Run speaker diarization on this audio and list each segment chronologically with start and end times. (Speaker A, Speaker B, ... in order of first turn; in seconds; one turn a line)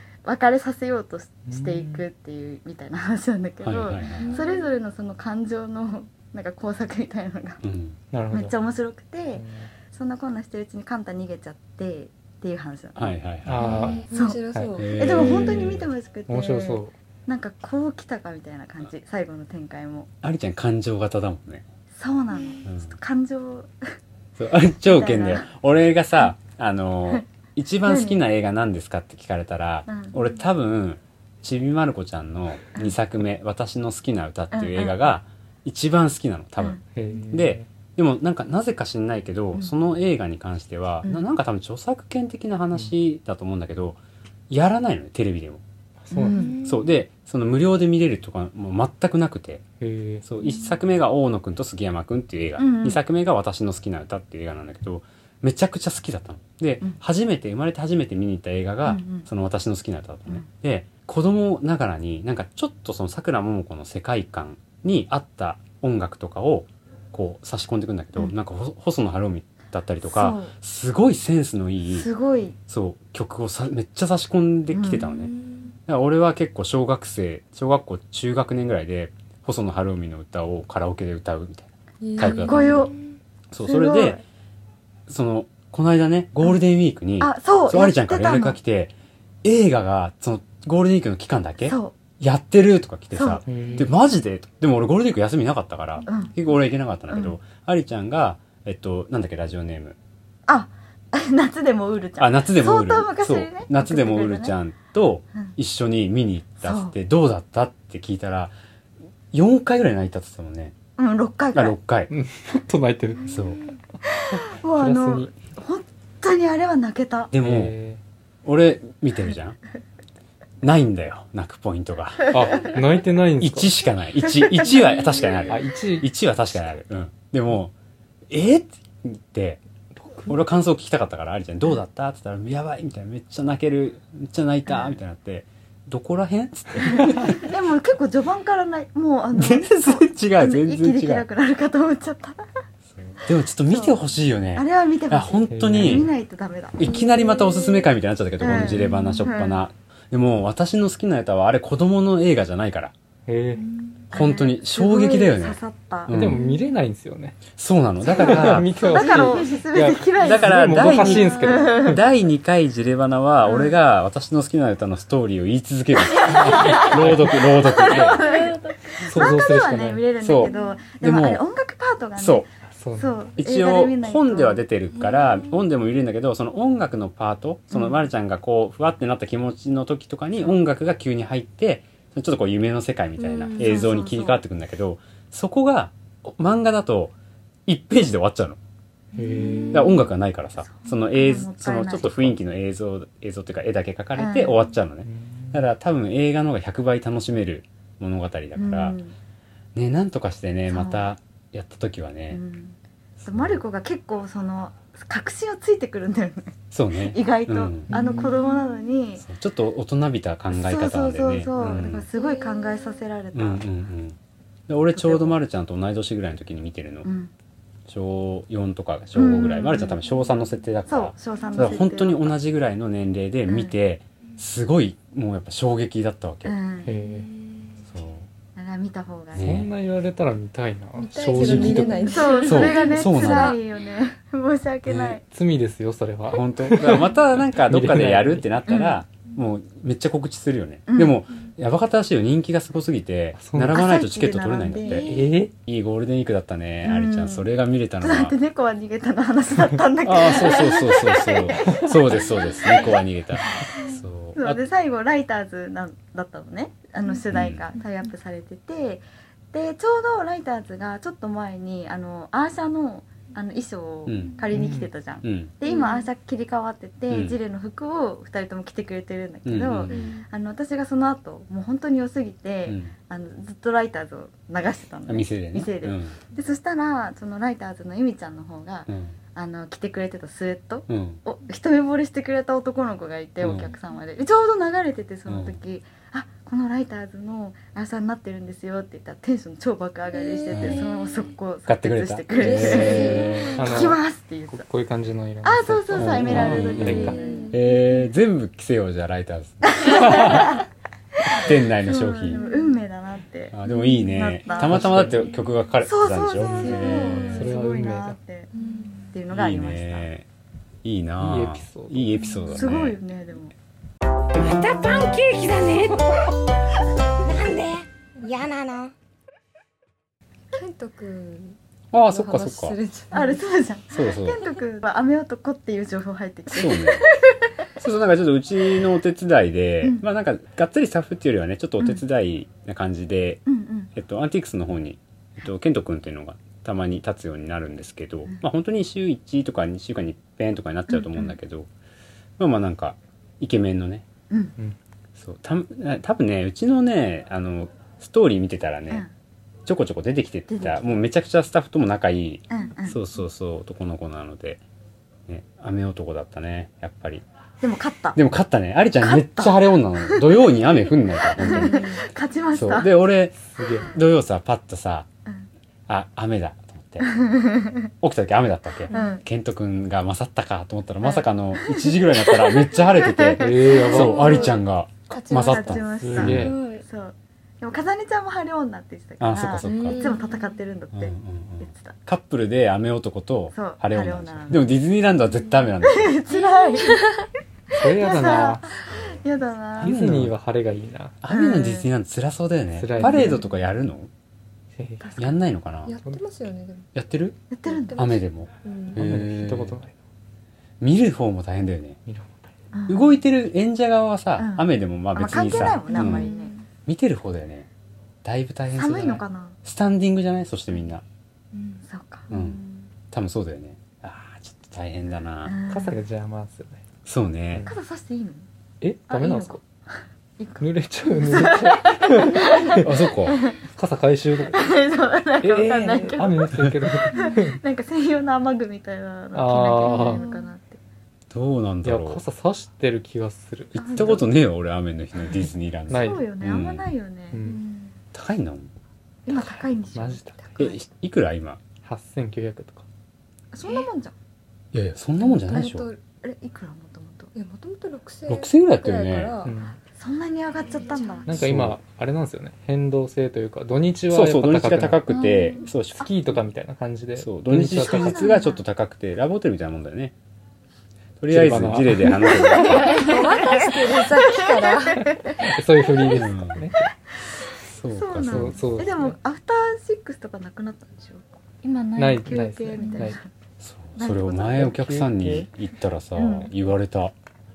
Speaker A: 0.2-7.6
Speaker B: 1.5-2.0
Speaker C: 3.6-4.3
Speaker D: 4.2-4.7
Speaker C: 7.6-8.0
Speaker B: 8.1-8.5
Speaker A: 8.3-13.1
Speaker B: 9.3-9.7
Speaker C: 12.9-14.0
Speaker B: 13.4-14.8
Speaker D: 13.6-15.5
Speaker A: 14.1-14.4
Speaker C: 14.8-15.9
Speaker A: 14.9-20.1
Speaker B: 16.3-16.9
Speaker C: 20.2-21.6
Speaker A: 21.9-23.7
Speaker C: 22.6-22.9
Speaker C: 24.4-36.8
Speaker A: 24.9-25.4
Speaker A: 27.8-28.2
Speaker A: 29.9-30.1
Speaker A: 34.5-35.0
Speaker B: 36.9-37.7
Speaker C: 37.3-44.0
Speaker C: 44.5-45.6
Speaker B: 46.0-46.4
Speaker A: 46.1-46.6
Speaker E: 46.3-46.9
Speaker C: 46.6-49.6
Speaker B: 49.8-50.2
Speaker C: 50.2-72.1
Speaker A: 52.6-53.0
Speaker A: 58.8-59.3
Speaker A: 70.0-70.5
Speaker A: 71.9-72.6
Speaker C: 72.7-75.3
Speaker A: 74.7-75.1
Speaker D: 75.3-75.7
Speaker C: 75.9-82.9
Speaker D: 82.0-82.9
Speaker A: 82.2-82.9
Speaker C: 83.5-84.2
Speaker A: 83.6-84.2
Speaker C: 85.1-88.9
Speaker A: 87.2-88.6
Speaker C: 89.4-100.0
Speaker A: 91.7-91.9
Speaker A: 93.1-93.8
Speaker B: 93.5-93.9
Speaker A: 96.1-96.4
Speaker A: 97.1-97.3
Speaker A: 100.5-104.5
Speaker C: 102.2-108.5
Speaker A: 106.6-106.9
Speaker C: 109.3-110.7
Speaker A: 111.0-111.8
Speaker C: 111.5-112.1
Speaker B: 112.1-113.3
Speaker C: 113.3-113.6
Speaker A: 114.2-117.3
Speaker B: 114.3-115.3
Speaker C: 117.3-117.7
Speaker B: 117.4-118.0
Speaker C: 118.4-119.6
Speaker C: 120.6-122.6
Speaker B: 122.3-123.7
Speaker C: 123.4-127.7
Speaker A: 124.4-124.7
Speaker B: 125.5-126.1
Speaker C: 128.3-129.6
Speaker B: 130.0-130.4
Speaker C: 130.3-137.4
Speaker A: 137.0-142.4
Speaker C: 139.3-141.2
Speaker C: 142.9-146.1
Speaker A: 143.7-144.0
Speaker A: 144.5-146.9
Speaker B: 145.5-146.1
Speaker C: 146.8-152.9
Speaker D: 146.8-147.8
Speaker A: 148.4-149.6
Speaker B: 153.3-153.7
Speaker E: 153.7-154.0
Speaker C: 154.1-156.4
Speaker A: 154.1-156.1
Speaker B: 156.1-157.4
Speaker C: 157.5-158.7
Speaker B: 158.1-162.0
Speaker A: 158.1-162.0
Speaker C: 160.2-168.2
Speaker E: 161.1-161.6
Speaker A: 163.4-163.7
Speaker A: 166.1-174.6
Speaker B: 166.3-167.5
Speaker E: 167.9-169.1
Speaker B: 169.1-170.1
Speaker C: 170.2-171.4
Speaker E: 170.5-170.8
Speaker C: 172.2-172.4
Speaker B: 172.7-173.2
Speaker C: 173.4-187.1
Speaker A: 177.7-178.0
Speaker D: 183.4-183.8
Speaker A: 183.5-184.4
Speaker C: 187.7-188.6
Speaker B: 189.1-189.9
Speaker D: 189.3-189.7
Speaker A: 189.6-189.9
Speaker C: 189.7-199.0
Speaker A: 190.7-192.4
Speaker A: 194.2-194.6
Speaker B: 195.0-195.6
Speaker A: 198.6-199.1
Speaker C: 199.7-202.4
Speaker A: 200.7-201.1
Speaker A: 202.3-209.2
Speaker C: 203.2-203.6
Speaker C: 206.7-207.9
Speaker D: 207.9-208.5
Speaker C: 209.2-212.1
Speaker A: 210.5-213.6
Speaker D: 212.1-213.0
Speaker C: 213.3-214.2
Speaker C: 214.7-217.1
Speaker A: 214.9-215.4
Speaker A: 217.0-217.3
Speaker C: 217.9-226.6
Speaker A: 219.2-220.0
Speaker A: 220.9-222.3
Speaker A: 223.5-223.7
Speaker A: 226.4-226.9
Speaker B: 226.8-227.3
Speaker C: 227.9-228.3
Speaker A: 228.6-229.5
Speaker C: 229.3-229.7
Speaker B: 229.4-232.3
Speaker D: 231.0-233.6
Speaker C: 231.3-233.6
Speaker A: 232.1-235.2
Speaker C: 234.9-235.2
Speaker B: 235.3-238.5
Speaker C: 236.3-248.3
Speaker A: 238.7-239.0
Speaker A: 240.9-241.2
Speaker B: 243.4-243.8
Speaker A: 243.7-245.1
Speaker B: 245.1-245.5
Speaker A: 246.8-247.5
Speaker A: 248.0-253.0
Speaker C: 250.0-254.6
Speaker A: 254.3-294.6
Speaker C: 257.3-257.6
Speaker C: 264.1-264.4
Speaker B: 264.5-264.9
Speaker C: 265.2-265.5
Speaker D: 265.6-265.9
Speaker C: 267.1-267.4
Speaker C: 269.4-269.9
Speaker D: 269.9-270.2
Speaker C: 272.7-272.9
Speaker C: 275.1-276.2
Speaker C: 278.9-279.1
Speaker C: 280.9-281.2
Speaker C: 283.4-283.7
Speaker C: 285.3-285.6
Speaker D: 290.1-291.0
Speaker C: 290.5-290.8
Speaker C: 291.7-293.8
Speaker D: 292.3-293.6
Speaker B: 293.5-297.2
Speaker A: 295.4-297.6
Speaker C: 295.9-300.6
Speaker D: 296.8-297.6
Speaker A: 299.7-300.6
Speaker A: 301.2-304.9
Speaker C: 301.3-302.4
Speaker D: 302.3-302.7
Speaker C: 303.5-307.4
Speaker B: 304.6-305.3
Speaker A: 305.8-310.1
Speaker E: 306.5-307.5
Speaker B: 307.3-308.2
Speaker D: 308.5-309.0
Speaker C: 309.3-310.2
Speaker C: 310.8-313.0
Speaker B: 311.2-312.4
Speaker A: 312.5-313.5
Speaker D: 314.4-316.3
Speaker D: 317.2-318.9
Speaker D: 320.5-323.4
Speaker C: 321.9-322.8
Speaker A: 323.1-327.4
Speaker C: 323.9-324.4
Speaker C: 326.5-327.1
Speaker C: 327.8-333.4
Speaker A: 333.4-333.9
Speaker C: 333.9-341.7
Speaker A: 340.9-341.3
Speaker C: 342.4-344.1
Speaker A: 344.3-344.5
Speaker C: 345.2-349.0
Speaker C: 349.6-354.6
Speaker A: 350.5-351.0
Speaker A: 352.5-353.0
Speaker C: 355.3-357.2
Speaker A: 357.6-358.2
Speaker C: 358.1-361.8
Speaker A: 359.0-360.6
Speaker A: 361.3-362.9
Speaker D: 361.7-362.0
Speaker C: 362.5-365.1
Speaker B: 363.6-364.0
Speaker C: 365.9-367.1
Speaker A: 367.0-367.9
Speaker C: 368.0-376.5
Speaker A: 368.9-369.2
Speaker D: 368.9-369.2
Speaker A: 371.0-374.6
Speaker B: 373.4-374.4
Speaker D: 373.7-375.8
Speaker A: 375.1-382.0
Speaker B: 376.0-376.6
Speaker E: 376.2-376.8
Speaker C: 379.2-380.1
Speaker D: 379.6-380.5
Speaker C: 380.9-386.1
Speaker A: 383.5-384.7
Speaker A: 385.8-387.0
Speaker D: 386.3-387.3
Speaker A: 387.7-389.9
Speaker B: 387.7-388.7
Speaker B: 389.8-391.1
Speaker C: 389.8-390.3
Speaker C: 391.2-394.1
Speaker A: 391.3-391.9
Speaker B: 392.8-393.4
Speaker A: 393.0-393.4
Speaker B: 394.7-395.2
Speaker A: 395.0-395.3
Speaker C: 395.1-395.9
Speaker D: 395.9-396.9
Speaker C: 396.9-397.4
Speaker A: 397.5-398.1
Speaker D: 397.7-399.2
Speaker C: 397.9-399.8
Speaker B: 398.9-399.9
Speaker C: 400.8-402.0
Speaker B: 402.1-402.5
Speaker A: 402.7-403.2
Speaker C: 402.9-406.3
Speaker A: 404.4-406.5
Speaker D: 405.9-406.6
Speaker C: 406.9-407.7
Speaker C: 408.2-411.0
Speaker A: 408.7-409.6
Speaker E: 411.5-411.8
Speaker A: 411.9-412.8
Speaker C: 412.3-415.6
Speaker A: 415.4-416.0
Speaker B: 415.7-416.8
Speaker C: 417.0-417.7
Speaker A: 417.6-418.4
Speaker B: 418.8-419.6
Speaker A: 419.1-423.6
Speaker B: 420.6-423.0
Speaker E: 422.2-422.7
Speaker C: 422.8-423.4
Speaker B: 423.7-424.7
Speaker A: 424.5-426.6
Speaker B: 425.4-427.6
Speaker A: 427.1-430.8
Speaker B: 429.3-430.2
Speaker E: 429.9-430.1
Speaker D: 430.1-430.4
Speaker C: 431.3-432.2
Speaker B: 431.8-434.3
Speaker C: 433.7-436.9
Speaker A: 433.8-434.2
Speaker B: 435.9-436.3
Speaker A: 435.9-437.4
Speaker B: 437.3-437.6
Speaker D: 437.4-437.9
Speaker C: 438.1-438.7
Speaker A: 439.2-440.7
Speaker B: 439.9-440.6
Speaker C: 440.6-441.6
Speaker B: 441.8-442.9
Speaker A: 443.5-444.1
Speaker C: 444.7-445.9
Speaker D: 445.2-446.0
Speaker A: 446.2-447.3
Speaker D: 447.3-449.6
Speaker C: 448.3-449.3
Speaker B: 449.4-449.8
Speaker A: 449.9-451.5
Speaker D: 450.8-451.4
Speaker B: 451.2-455.0
Speaker C: 451.3-451.8
Speaker C: 454.1-456.4
Speaker D: 455.1-455.7
Speaker B: 455.9-458.4
Speaker C: 457.1-460.1
Speaker A: 457.7-458.6
Speaker C: 461.2-463.1
Speaker B: 461.3-462.4
Speaker A: 462.5-465.4
Speaker E: 462.7-463.7
Speaker D: 462.7-465.4
Speaker B: 465.4-466.9
Speaker C: 466.1-466.6
Speaker C: 467.6-468.6
Speaker A: 467.9-471.3
Speaker B: 468.2-469.2
Speaker E: 471.6-473.1
Speaker B: 471.9-473.2
Speaker A: 472.2-473.3
Speaker C: 473.6-477.1
Speaker A: 474.0-474.7
Speaker B: 474.5-475.5
Speaker A: 476.1-476.5